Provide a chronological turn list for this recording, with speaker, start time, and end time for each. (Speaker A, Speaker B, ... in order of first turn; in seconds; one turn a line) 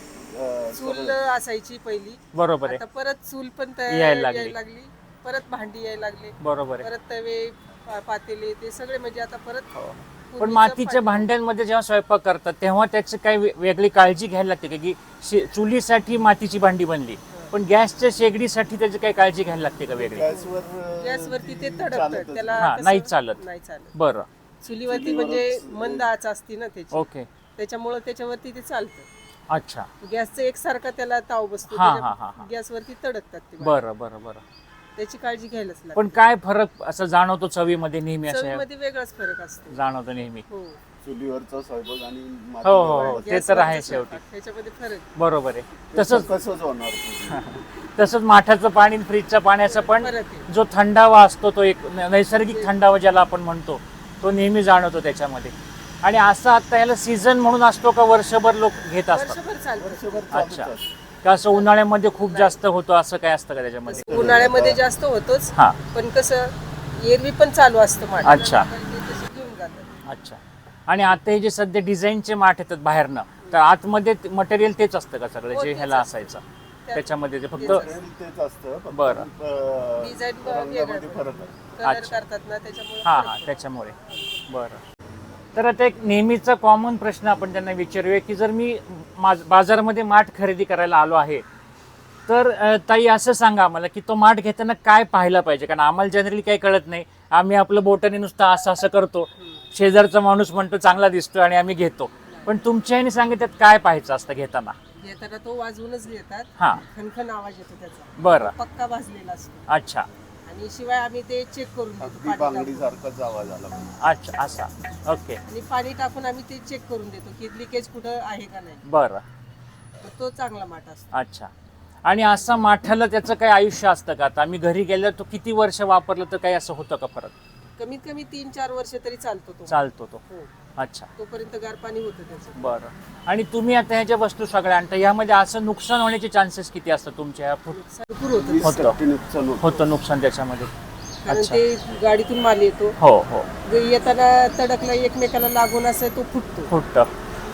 Speaker A: 0.2-1.2
Speaker B: 0.7-9.7
Speaker C: 2.3-2.8
Speaker C: 3.9-4.5
Speaker C: 6.4-6.9
Speaker C: 9.8-20.3
Speaker B: 10.3-11.3
Speaker B: 20.1-23.9
Speaker A: 20.1-22.7
Speaker C: 22.6-23.4
Speaker C: 23.9-24.3
Speaker B: 24.6-29.1
Speaker A: 24.9-26.1
Speaker C: 26.9-27.3
Speaker C: 29.5-29.9
Speaker B: 30.0-33.8
Speaker C: 31.7-32.5
Speaker C: 33.6-34.4
Speaker B: 35.0-36.2
Speaker C: 36.0-38.6
Speaker B: 38.3-39.8
Speaker C: 39.7-40.4
Speaker B: 40.5-40.8
Speaker A: 41.0-43.8
Speaker C: 42.6-44.2
Speaker B: 42.9-45.1
Speaker C: 45.2-46.3
Speaker A: 45.9-47.6
Speaker C: 47.3-59.4
Speaker B: 49.6-50.5
Speaker B: 52.5-52.7
Speaker B: 59.1-60.4
Speaker A: 59.8-60.9
Speaker C: 60.3-60.7
Speaker C: 61.2-64.4
Speaker B: 61.5-62.6
Speaker B: 63.9-69.9
Speaker A: 64.1-64.8
Speaker C: 65.5-65.8
Speaker C: 68.2-68.7
Speaker C: 70.1-76.4
Speaker B: 75.5-78.0
Speaker C: 76.9-77.9
Speaker A: 77.6-81.6
Speaker C: 78.9-79.3
Speaker B: 80.0-84.4
Speaker C: 81.8-82.2
Speaker C: 83.0-84.0
Speaker C: 84.5-84.8
Speaker C: 85.5-91.4
Speaker C: 92.3-104.8
Speaker B: 99.4-99.7
Speaker B: 102.3-102.5
Speaker B: 105.0-109.7
Speaker C: 106.6-106.8
Speaker C: 108.2-108.5
Speaker C: 109.7-110.1
Speaker B: 110.5-112.9
Speaker A: 112.0-114.0
Speaker C: 114.0-115.4
Speaker B: 115.5-118.8
Speaker C: 118.9-119.2
Speaker B: 120.0-121.1
Speaker C: 121.1-121.5
Speaker C: 122.0-127.3
Speaker B: 127.8-130.5
Speaker C: 129.7-130.2
Speaker C: 130.8-131.1
Speaker B: 131.2-132.8
Speaker C: 132.6-137.8
Speaker B: 137.7-138.8
Speaker A: 138.3-139.9
Speaker C: 138.6-139.0
Speaker C: 139.6-140.7
Speaker B: 141.2-143.0
Speaker C: 141.3-141.6
Speaker C: 143.0-143.5
Speaker B: 143.7-146.7
Speaker C: 146.7-147.1